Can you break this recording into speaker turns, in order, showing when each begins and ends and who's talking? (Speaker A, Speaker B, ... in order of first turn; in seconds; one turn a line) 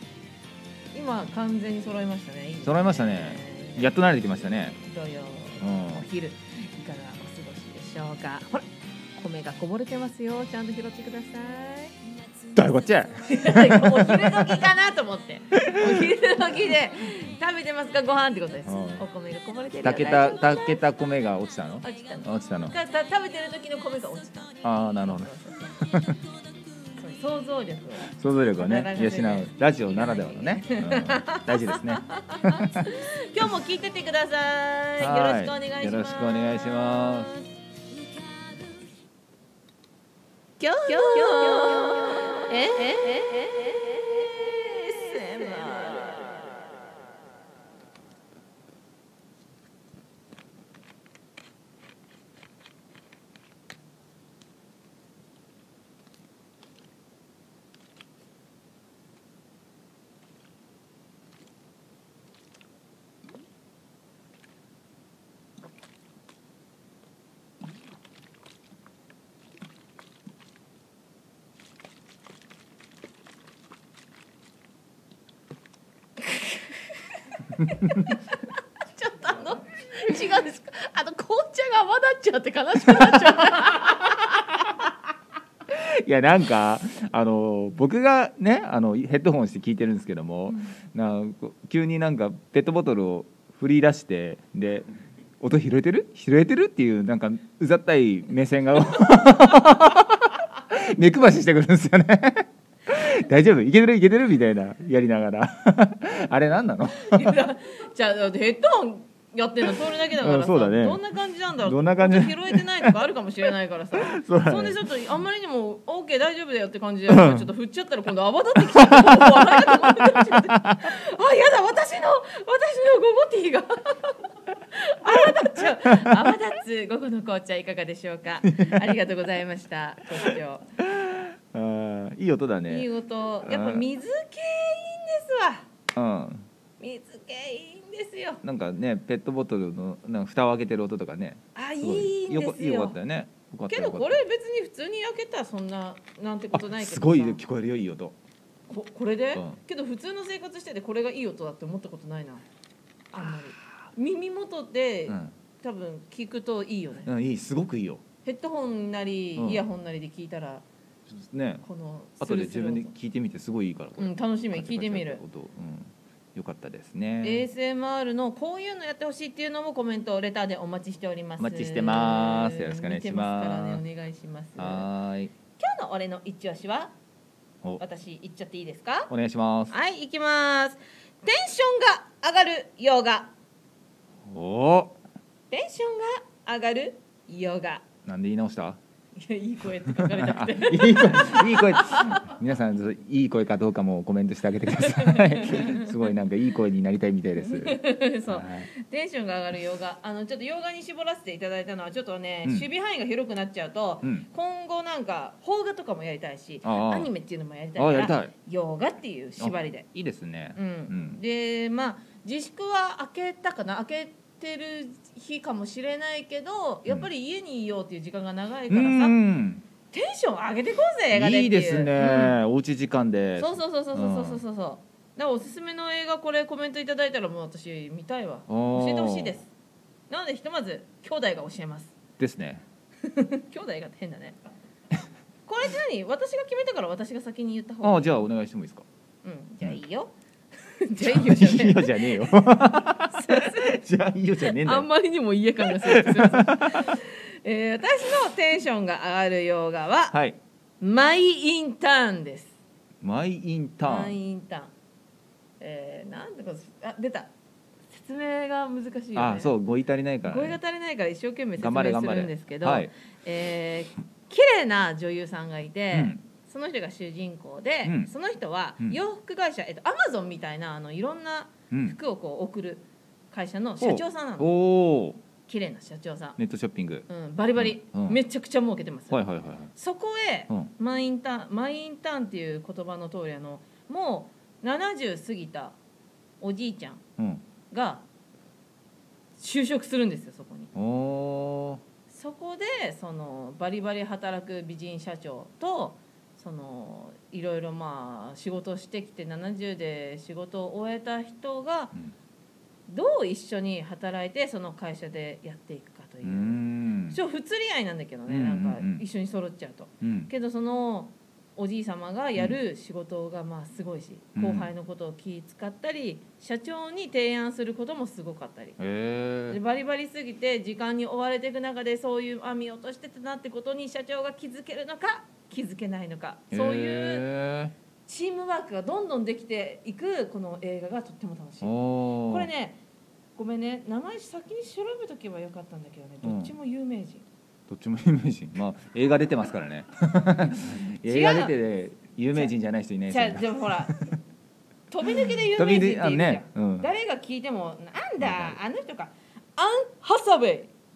Speaker A: 0.9-12.0
Speaker B: 2.6-4.7
Speaker B: 5.6-6.0
Speaker B: 12.5-14.6
Speaker A: 13.2-20.8
Speaker B: 18.6-19.0
Speaker B: 19.8-22.7
Speaker A: 21.8-25.6
Speaker B: 24.6-26.2
Speaker A: 27.0-37.5
Speaker B: 28.1-32.8
Speaker B: 35.0-37.3
Speaker A: 40.6-46.8
Speaker A: 76.3-76.6
Speaker A: 77.7-78.3
Speaker A: 78.9-84.7
Speaker B: 85.7-94.9
Speaker A: 90.5-90.7
Speaker B: 95.4-107.3
Speaker A: 107.0-124.2
Speaker B: 110.2-111.0
Speaker B: 111.6-112.9
Speaker B: 114.0-114.8
Speaker B: 117.1-117.5
Speaker B: 118.7-120.8
Speaker A: 124.7-130.7
Speaker B: 125.6-126.3
Speaker B: 128.6-128.9
Speaker B: 130.8-132.9
Speaker A: 132.7-135.7
Speaker B: 133.4-133.8
Speaker B: 135.9-136.5
Speaker A: 136.8-138.4
Speaker B: 138.4-144.2
Speaker A: 141.5-143.0
Speaker A: 143.7-147.4
Speaker B: 146.5-148.1
Speaker A: 148.7-152.4
Speaker A: 153.1-157.1
Speaker B: 155.1-155.3
Speaker B: 157.0-158.0
Speaker A: 158.2-160.6
Speaker B: 159.4-159.6
Speaker B: 161.1-161.7
Speaker A: 161.6-162.9
Speaker B: 162.2-167.4
Speaker A: 164.0-165.2
Speaker A: 167.2-174.9
Speaker B: 171.4-173.8
Speaker B: 174.6-175.3
Speaker A: 175.6-176.9
Speaker A: 177.8-179.1
Speaker B: 179.1-179.7
Speaker A: 179.7-183.3
Speaker B: 184.3-184.9
Speaker A: 185.5-187.8
Speaker B: 188.1-188.8
Speaker A: 189.2-192.1
Speaker B: 189.9-198.7
Speaker A: 194.8-195.9
Speaker A: 197.4-209.9
Speaker B: 206.6-207.1
Speaker B: 207.8-208.3
Speaker B: 209.4-211.2
Speaker A: 210.5-219.2
Speaker B: 218.7-219.6
Speaker A: 219.9-222.3
Speaker B: 221.1-224.4
Speaker A: 223.4-229.5
Speaker B: 228.5-229.4
Speaker A: 230.1-231.9
Speaker B: 232.2-232.6
Speaker A: 233.0-234.4
Speaker A: 235.4-238.2
Speaker B: 237.8-238.8
Speaker A: 239.2-240.1
Speaker A: 240.6-243.8
Speaker B: 241.0-244.9
Speaker A: 244.4-250.1
Speaker B: 245.7-246.9
Speaker B: 250.1-250.4
Speaker A: 250.8-252.5
Speaker B: 253.0-254.2
Speaker A: 253.8-254.7
Speaker A: 255.6-257.3
Speaker A: 257.9-259.5
Speaker B: 259.1-260.6
Speaker A: 260.2-274.5
Speaker B: 261.6-262.9
Speaker B: 265.9-266.2
Speaker B: 267.8-268.1
Speaker B: 271.7-272.0
Speaker B: 273.8-275.2
Speaker A: 275.4-276.4
Speaker B: 276.4-278.2
Speaker A: 277.1-279.2
Speaker B: 279.1-279.7
Speaker A: 279.7-285.8
Speaker A: 286.4-287.0
Speaker B: 287.2-287.4
Speaker A: 287.7-288.1
Speaker A: 289.4-290.7
Speaker B: 290.7-291.8
Speaker A: 292.1-301.9
Speaker A: 302.9-318.8
Speaker B: 306.2-307.2
Speaker B: 308.3-309.0
Speaker B: 310.0-310.3
Speaker B: 314.4-314.7
Speaker B: 318.8-319.6
Speaker A: 319.5-327.3
Speaker B: 326.5-327.7
Speaker A: 328.1-332.8
Speaker B: 331.6-332.5
Speaker A: 333.4-337.2
Speaker B: 336.2-336.5
Speaker B: 337.7-344.1
Speaker A: 341.0-341.6
Speaker A: 343.1-344.0
Speaker A: 344.9-350.7
Speaker B: 345.1-346.9
Speaker B: 348.2-348.6